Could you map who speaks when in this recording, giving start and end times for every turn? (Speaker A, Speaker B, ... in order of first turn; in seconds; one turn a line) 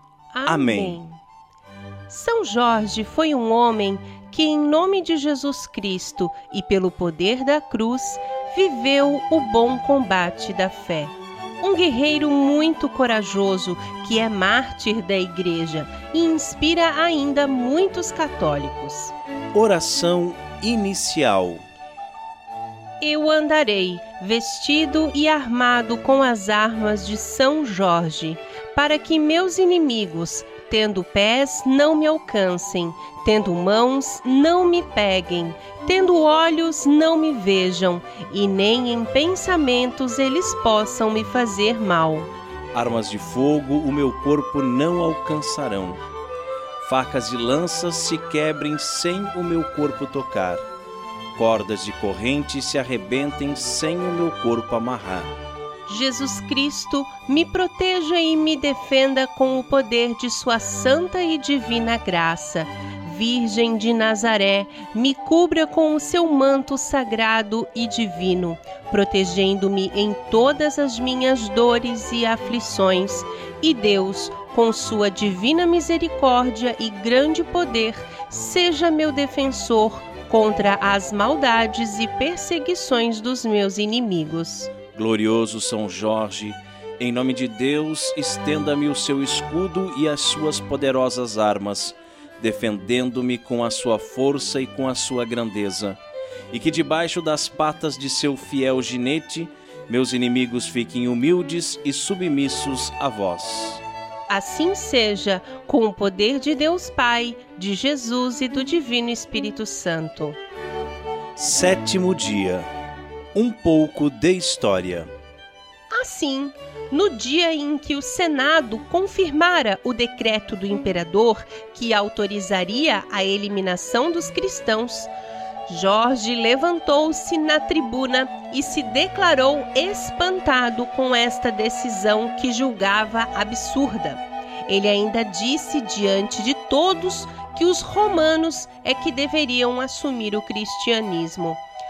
Speaker A: 0.3-1.2
Speaker B: 0.5-1.0
Speaker A: 2.1-19.1
Speaker B: 19.5-21.6
Speaker A: 23.0-42.3
Speaker B: 42.7-46.0
Speaker B: 46.8-50.6
Speaker B: 51.4-55.3
Speaker A: 55.9-84.7
Speaker B: 84.9-96.0
Speaker B: 96.5-103.8
Speaker A: 104.3-110.4
Speaker B: 111.4-112.7
Speaker B: 113.3-115.1
Speaker A: 115.9-125.1
Speaker A: 125.7-141.6